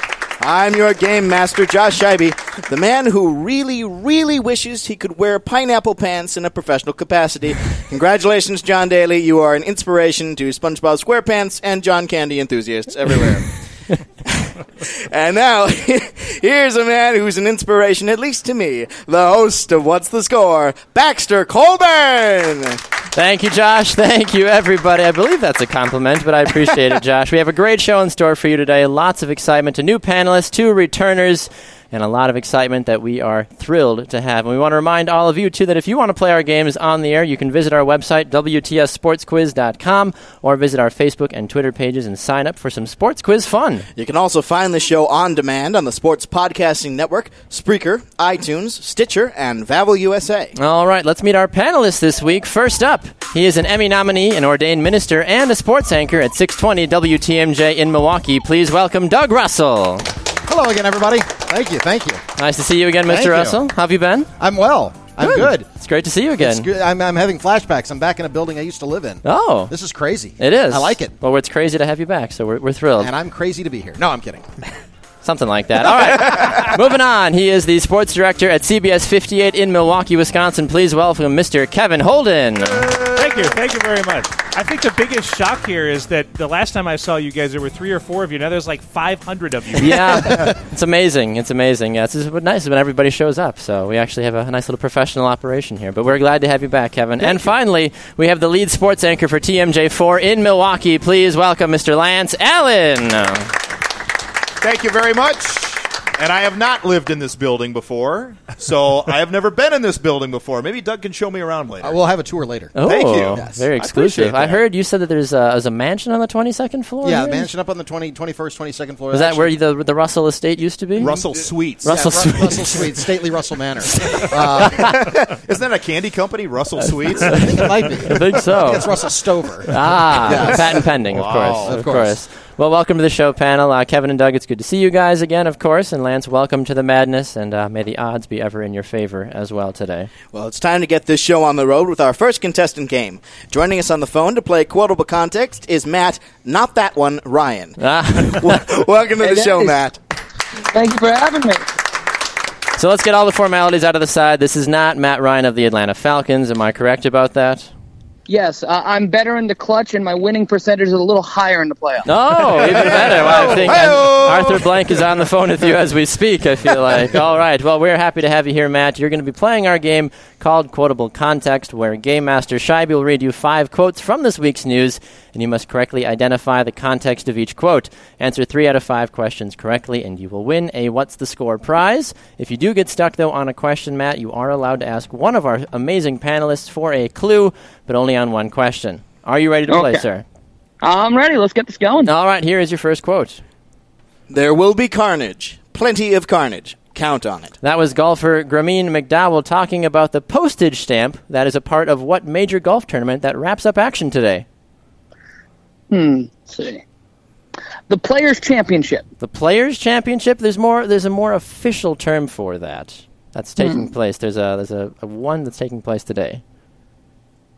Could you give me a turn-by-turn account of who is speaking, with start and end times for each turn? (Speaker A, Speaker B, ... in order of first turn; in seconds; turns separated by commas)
Speaker A: 0.4-13.5, Speaker A: 14.4-22.8, Speaker B: 23.1-43.9, Speaker A: 44.0-50.5, Speaker B: 50.5-60.1, Speaker C: 60.4-62.2, Speaker B: 62.4-64.3, Speaker C: 63.1-63.6, Speaker C: 64.4-65.7, Speaker B: 65.2-66.7, Speaker C: 66.4-71.1, Speaker B: 69.2-69.7, Speaker B: 70.4-73.1, Speaker C: 73.0-74.5, Speaker B: 75.2-82.9, Speaker D: 83.1-90.5, Speaker B: 89.8-103.5, Speaker E: 97.2-97.5, Speaker E: 104.6-112.0, Speaker C: 111.8-112.7, Speaker B: 112.8-117.5, Speaker E: 112.8-114.6, Speaker C: 117.0-119.6, Speaker B: 119.1-122.9, Speaker E: 121.0-122.2, Speaker C: 121.8-125.1, Speaker B: 124.0-125.0, Speaker E: 124.9-127.9, Speaker B: 127.3-129.0, Speaker C: 127.3-130.9, Speaker B: 129.7-140.1, Speaker E: 131.1-132.0, Speaker C: 131.6-132.1, Speaker A: 140.3-150.0, Speaker B: 147.8-148.7, Speaker F: 149.2-149.8, Speaker F: 150.7-151.6, Speaker B: 152.8-157.7, Speaker F: 158.3-162.1, Speaker B: 162.0-190.2, Speaker E: 162.5-165.0, Speaker C: 163.8-164.2, Speaker F: 189.7-190.0, Speaker F: 190.8-192.1, Speaker B: 192.0-193.4, Speaker A: 194.3-197.6, Speaker B: 197.6-204.4, Speaker F: 205.9-206.8, Speaker F: 207.9-209.1, Speaker B: 209.2-216.4, Speaker F: 213.6-213.8